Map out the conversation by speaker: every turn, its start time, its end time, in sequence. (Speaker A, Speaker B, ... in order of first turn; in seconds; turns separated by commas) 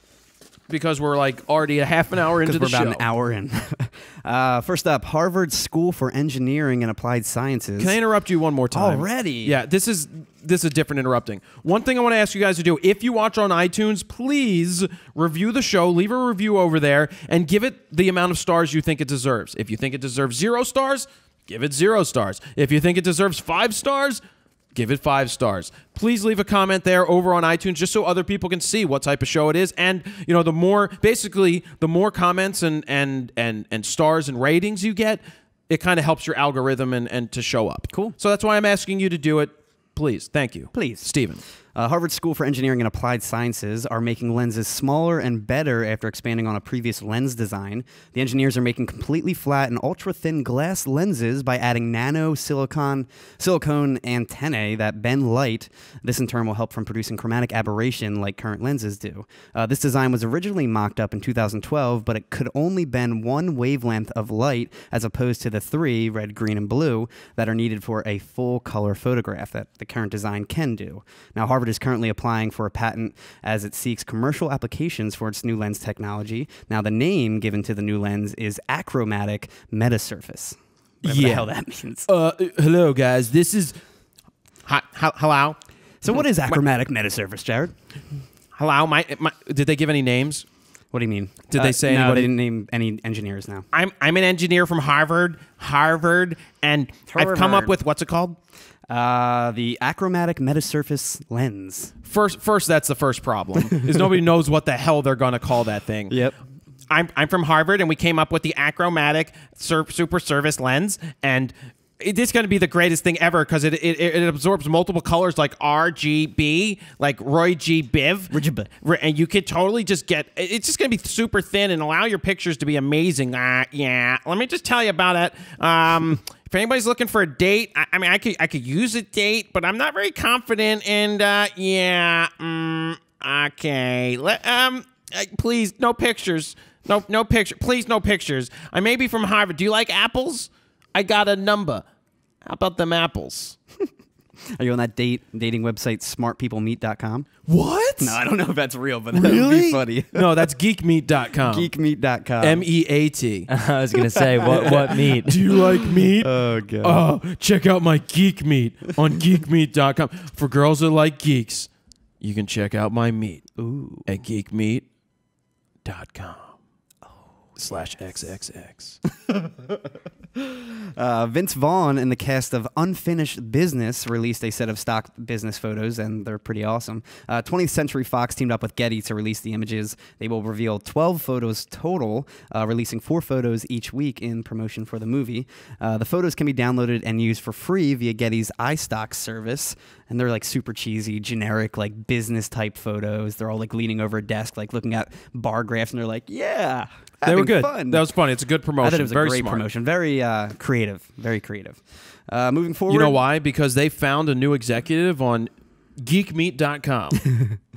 Speaker A: 0.7-3.0, Speaker B: 2.4-8.0, Speaker A: 7.8-24.2, Speaker B: 8.7-9.6, Speaker A: 24.7-41.4, Speaker B: 40.7-41.1, Speaker B: 41.7-82.1, Speaker A: 81.0-81.5, Speaker A: 82.0-83.8, Speaker A: 84.7-85.6, Speaker B: 86.0-87.8, Speaker A: 88.5-90.5, Speaker B: 90.9-93.7, Speaker A: 91.5-92.3, Speaker A: 93.7-98.4, Speaker B: 97.1-97.7, Speaker B: 98.9-101.9, Speaker A: 102.0-106.2, Speaker B: 103.7-104.1, Speaker B: 106.1-106.4, Speaker A: 106.9-141.8, Speaker B: 118.3-118.7, Speaker A: 142.4-143.6, Speaker B: 144.6-147.3, Speaker A: 147.5-148.2, Speaker B: 148.0-150.2, Speaker A: 149.1-151.7, Speaker B: 151.4-152.6, Speaker A: 152.4-153.5, Speaker C: 153.5-155.4, Speaker B: 154.1-155.0, Speaker A: 154.6-161.7, Speaker B: 156.2-157.0, Speaker A: 162.2-163.4, Speaker B: 163.6-164.1, Speaker A: 164.1-164.8, Speaker A: 165.8-166.6, Speaker A: 167.6-169.0, Speaker B: 169.3-169.7, Speaker B: 170.4-198.0, Speaker A: 197.2-199.6, Speaker B: 198.8-203.2, Speaker A: 202.9-207.2, Speaker B: 207.2-207.6